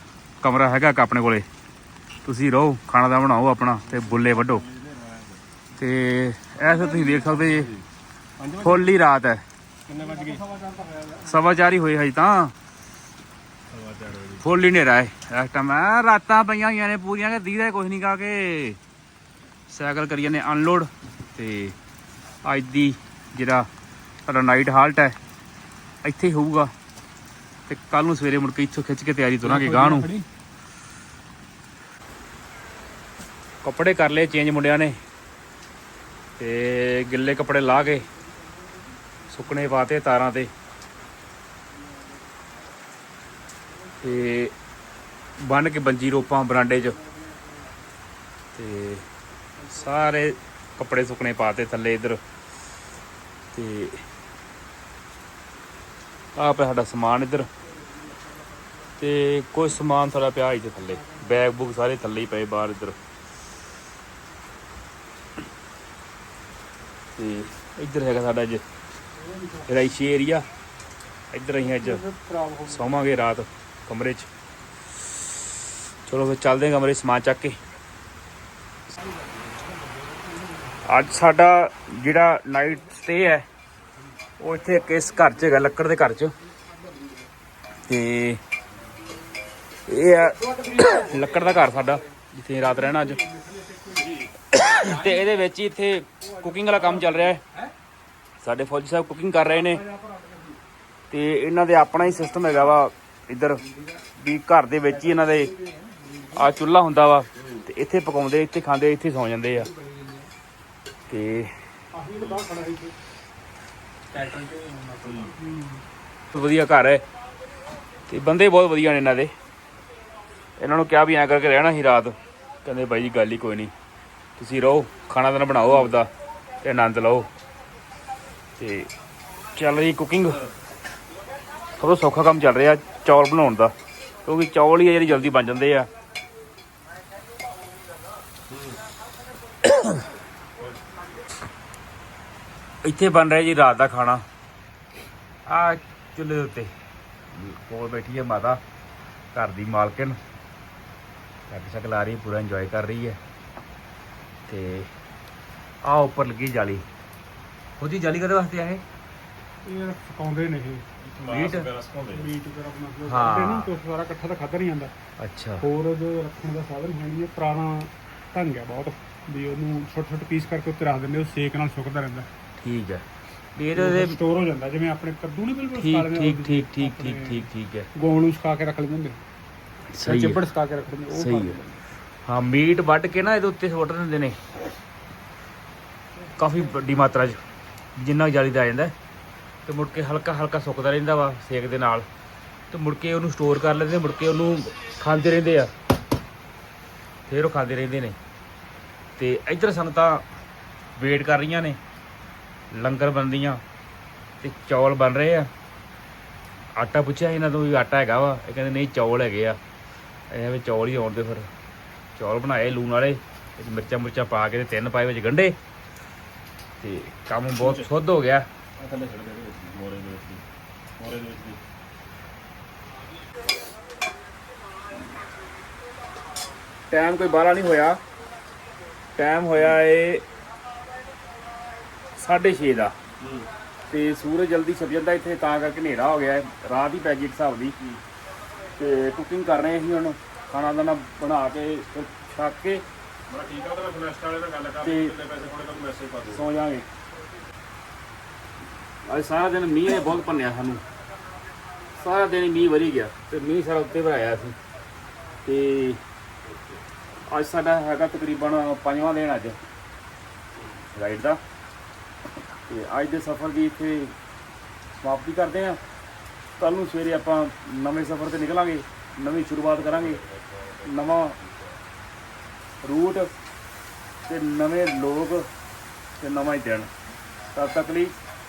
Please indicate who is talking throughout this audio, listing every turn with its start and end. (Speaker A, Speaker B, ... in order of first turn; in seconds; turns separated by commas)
Speaker A: 0.4-1.4, Speaker A: 2.2-4.7, Speaker A: 5.8-7.8, Speaker A: 8.5-9.4, Speaker B: 9.9-10.4, Speaker C: 10.6-11.1, Speaker A: 11.1-12.5, Speaker B: 13.8-14.2, Speaker A: 14.4-18.8, Speaker A: 19.7-21.8, Speaker A: 22.4-23.7, Speaker A: 24.3-25.2, Speaker A: 26.0-26.7, Speaker A: 27.7-30.1, Speaker C: 29.4-30.3, Speaker A: 33.6-35.0, Speaker A: 36.4-38.1, Speaker A: 39.3-40.5, Speaker A: 44.0-44.5, Speaker A: 45.4-47.0, Speaker A: 48.5-49.0, Speaker A: 49.6-52.2, Speaker A: 53.5-54.0, Speaker A: 56.4-57.5, Speaker A: 59.0-63.0, Speaker A: 67.2-68.6, Speaker C: 69.2-69.7, Speaker A: 69.7-70.5, Speaker A: 71.3-72.0, Speaker C: 71.7-73.0, Speaker A: 72.7-74.3, Speaker A: 76.1-77.6, Speaker A: 80.8-83.5, Speaker A: 84.4-86.3, Speaker A: 87.9-88.4, Speaker A: 89.9-93.2, Speaker C: 93.3-94.1, Speaker A: 94.4-97.4, Speaker A: 98.4-99.8, Speaker A: 101.1-103.7, Speaker A: 104.2-105.5, Speaker A: 106.3-109.7, Speaker A: 111.1-111.5, Speaker C: 111.9-113.0, Speaker C: 114.1-115.8, Speaker A: 116.3-117.0, Speaker A: 118.1-119.3, Speaker A: 120.6-123.7, Speaker A: 124.4-126.1, Speaker A: 126.6-127.3, Speaker A: 128.6-128.9, Speaker A: 129.6-130.4, Speaker A: 131.8-133.7, Speaker A: 134.2-135.9, Speaker A: 139.6-140.1, Speaker A: 142.8-144.2, Speaker A: 145.5-146.7, Speaker A: 147.3-148.6, Speaker A: 149.3-150.2, Speaker A: 151.5-153.2, Speaker A: 154.5-154.9, Speaker A: 155.8-156.8, Speaker A: 157.8-158.8, Speaker C: 159.6-160.9, Speaker B: 161.0-162.2, Speaker A: 161.3-161.7, Speaker C: 162.1-164.9, Speaker A: 163.1-163.7, Speaker A: 165.2-165.7, Speaker C: 165.6-172.3, Speaker A: 172.6-173.0, Speaker A: 173.6-174.2, Speaker C: 173.7-179.2, Speaker A: 175.8-177.9, Speaker A: 179.9-180.4, Speaker C: 180.0-181.8, Speaker A: 181.1-181.6, Speaker A: 182.3-184.4, Speaker A: 186.4-187.4, Speaker A: 188.0-188.9, Speaker A: 189.7-192.1, Speaker A: 192.7-195.7, Speaker A: 197.3-198.2, Speaker A: 199.2-200.2, Speaker A: 201.0-201.8, Speaker A: 202.7-203.6, Speaker A: 204.4-205.5, Speaker A: 206.8-209.6, Speaker A: 210.3-211.5, Speaker A: 212.2-215.6, Speaker A: 216.8-218.5, Speaker B: 218.8-220.4, Speaker B: 221.0-221.6, Speaker A: 226.9-228.0, Speaker A: 229.2-230.2, Speaker A: 232.2-232.9, Speaker A: 233.9-237.8, Speaker A: 238.8-242.8, Speaker B: 243.3-246.3, Speaker A: 244.8-245.2, Speaker A: 246.3-246.9, Speaker A: 249.1-250.8, Speaker A: 252.0-254.6, Speaker A: 255.4-256.0, Speaker A: 257.3-259.6, Speaker A: 260.7-261.4, Speaker A: 262.7-264.1, Speaker A: 264.9-265.8, Speaker A: 266.6-270.2, Speaker A: 270.8-271.4, Speaker A: 272.8-273.3, Speaker A: 274.3-275.5, Speaker A: 276.2-276.9, Speaker A: 277.5-278.1